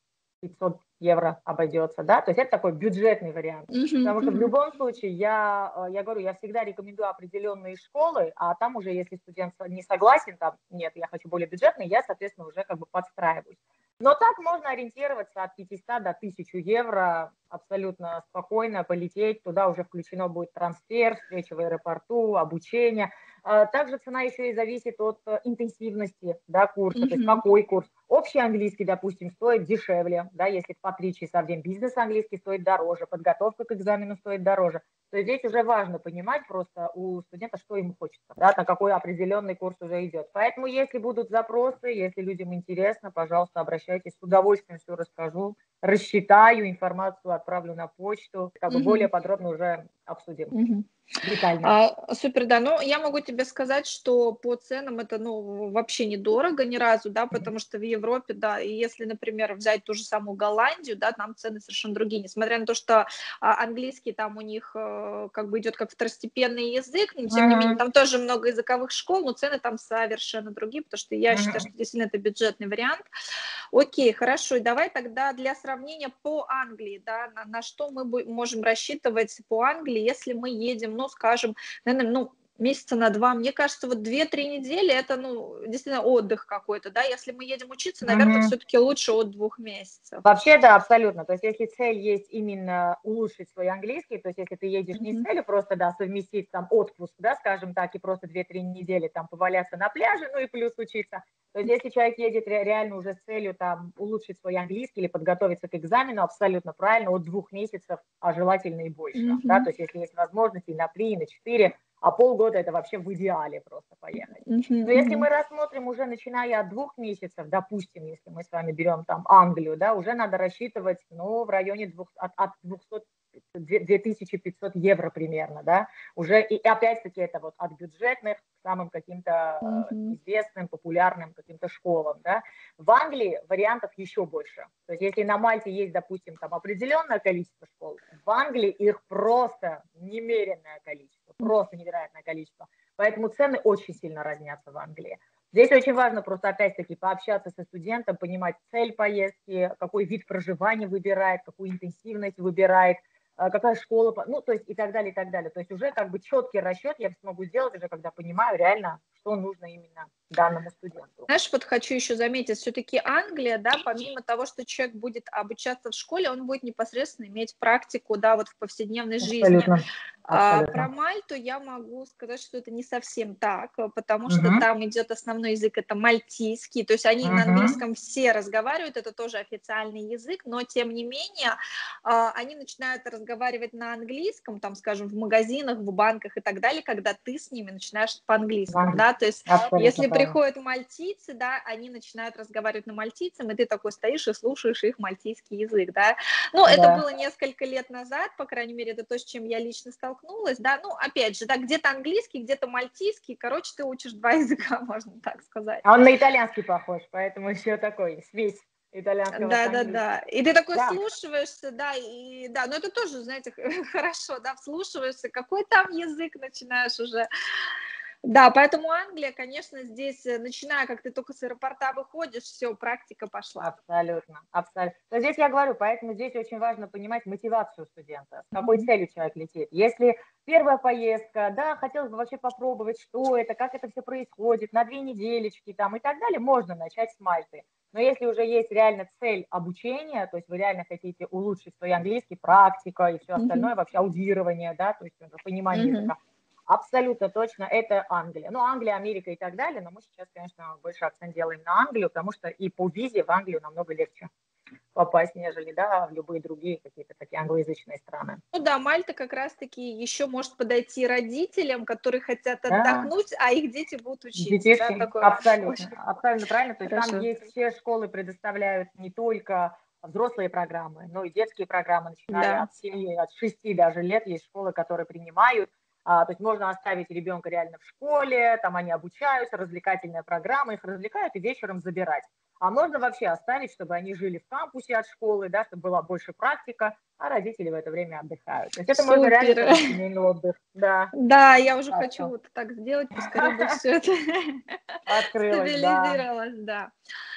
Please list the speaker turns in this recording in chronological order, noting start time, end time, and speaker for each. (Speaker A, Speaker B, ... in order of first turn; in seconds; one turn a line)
Speaker A: 0.4-50.5
Speaker B: 3.7-4.5
Speaker B: 26.9-27.4
Speaker B: 48.7-49.1
Speaker B: 50.5-50.9
Speaker A: 51.2-51.8
Speaker B: 51.6-73.0
Speaker A: 67.3-67.8
Speaker A: 71.3-71.7
Speaker B: 73.7-90.2
Speaker A: 88.0-88.5
Speaker A: 90.2-161.3
Speaker B: 95.0-95.2
Speaker B: 109.1-109.7
Speaker B: 114.3-115.2
Speaker B: 129.6-130.2
Speaker B: 161.3-169.7
Speaker A: 169.2-170.9
Speaker B: 170.3-205.8
Speaker A: 174.3-174.6
Speaker A: 177.2-177.8
Speaker A: 188.7-190.3
Speaker A: 196.7-197.0
Speaker A: 205.8-210.0
Speaker B: 209.3-217.3
Speaker A: 210.7-211.0
Speaker B: 218.2-223.7
Speaker A: 223.6-254.3
Speaker B: 228.5-228.9
Speaker B: 243.4-243.7
Speaker B: 245.7-246.1
Speaker A: 254.9-258.4
Speaker B: 258.5-265.9
Speaker A: 262.7-263.1
Speaker A: 264.4-291.1
Speaker B: 266.9-267.3
Speaker B: 272.3-272.7
Speaker B: 288.9-289.9
Speaker B: 291.1-294.6
Speaker A: 291.9-292.3
Speaker A: 293.4-293.7
Speaker A: 295.1-296.2
Speaker B: 295.4-296.9